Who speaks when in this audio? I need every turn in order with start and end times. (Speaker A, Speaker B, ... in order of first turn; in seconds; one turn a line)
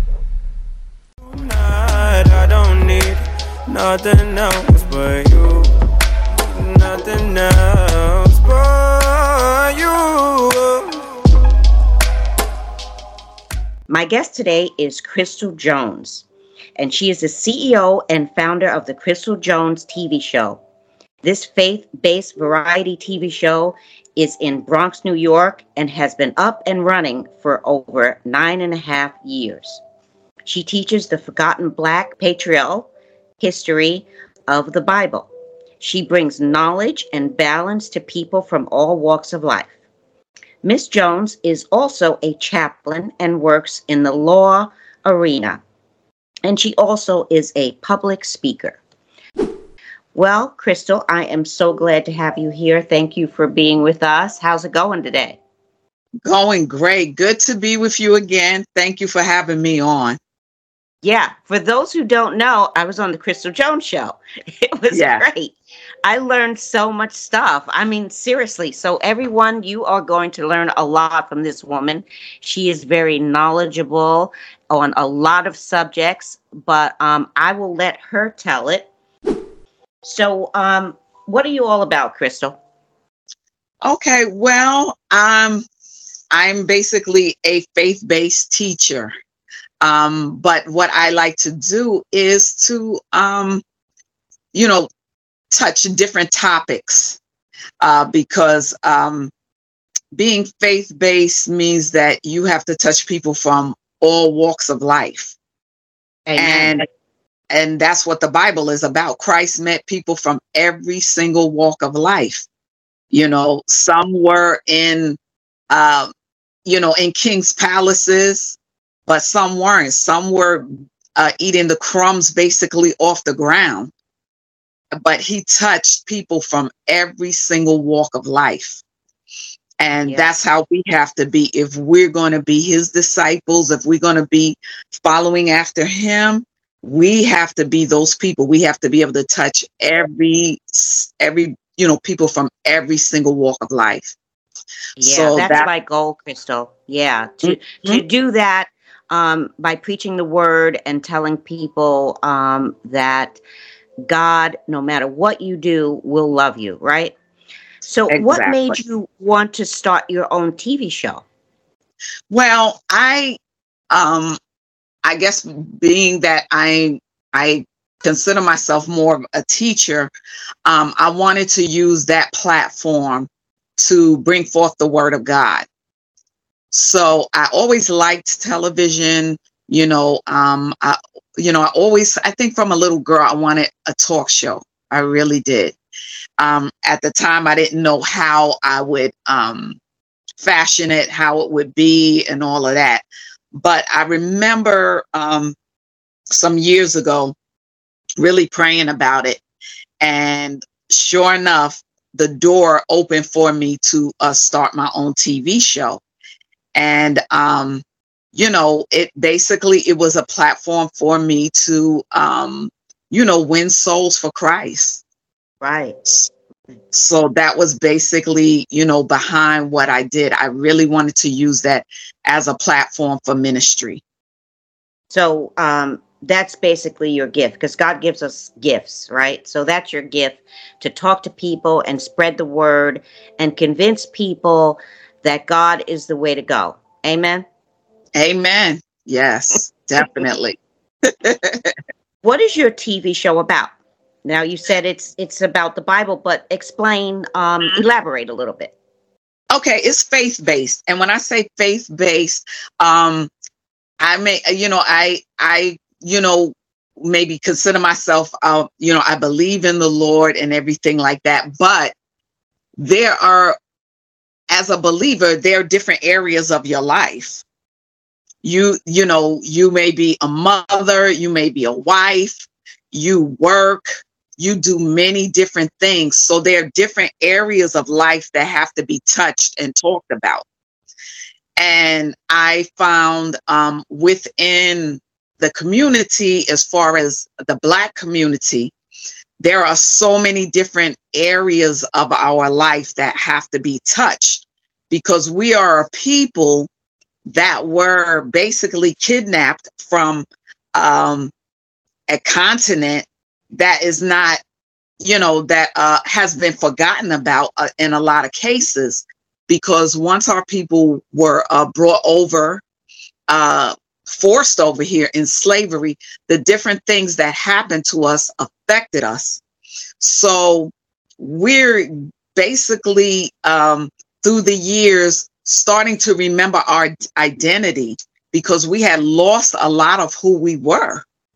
Speaker A: 1.3-5.7
Speaker A: 6.5-11.0
Speaker B: 13.9-16.2
Speaker B: 16.8-20.6
Speaker B: 21.2-29.8
Speaker B: 30.4-35.3
Speaker B: 35.8-39.7
Speaker B: 40.6-45.6
Speaker B: 46.4-48.8
Speaker B: 50.1-55.4
Speaker C: 56.2-60.2
Speaker B: 61.0-78.9
Speaker C: 64.9-65.3
Speaker B: 80.0-82.6
Speaker C: 83.8-85.7
Speaker C: 86.3-89.1
Speaker C: 89.8-93.6
Speaker C: 94.5-94.9
Speaker C: 95.5-97.2
Speaker C: 97.8-99.3
Speaker C: 100.1-105.3
Speaker B: 106.3-106.8
Speaker C: 106.4-106.8
Speaker C: 107.5-112.5
Speaker C: 113.1-115.2
Speaker C: 115.7-116.1
Speaker C: 116.7-123.9
Speaker C: 125.0-128.8
Speaker C: 129.8-144.2
Speaker B: 145.0-153.4
Speaker C: 145.0-145.7
Speaker C: 147.4-148.0
Speaker B: 154.1-157.1
Speaker B: 157.8-161.2
Speaker C: 158.1-158.8
Speaker C: 162.3-163.4
Speaker C: 163.9-164.4
Speaker C: 165.0-170.1
Speaker C: 170.7-175.7
Speaker C: 176.7-185.8
Speaker C: 186.4-189.8
Speaker C: 190.4-195.6
Speaker C: 196.3-197.3
Speaker C: 198.2-199.4
Speaker C: 200.0-206.0
Speaker C: 206.8-215.0
Speaker B: 215.6-216.0
Speaker C: 216.9-224.0
Speaker B: 225.1-237.5
Speaker C: 238.2-241.8
Speaker B: 242.2-243.7
Speaker B: 244.2-248.7
Speaker C: 249.5-253.3
Speaker C: 254.0-261.9
Speaker C: 262.8-263.6
Speaker C: 264.5-267.4
Speaker C: 268.4-273.9
Speaker C: 274.4-280.4
Speaker C: 281.6-288.7
Speaker C: 289.4-296.7
Speaker C: 297.2-301.3
Speaker C: 302.1-304.4
Speaker C: 305.0-312.6
Speaker C: 313.3-319.4
Speaker C: 320.0-331.0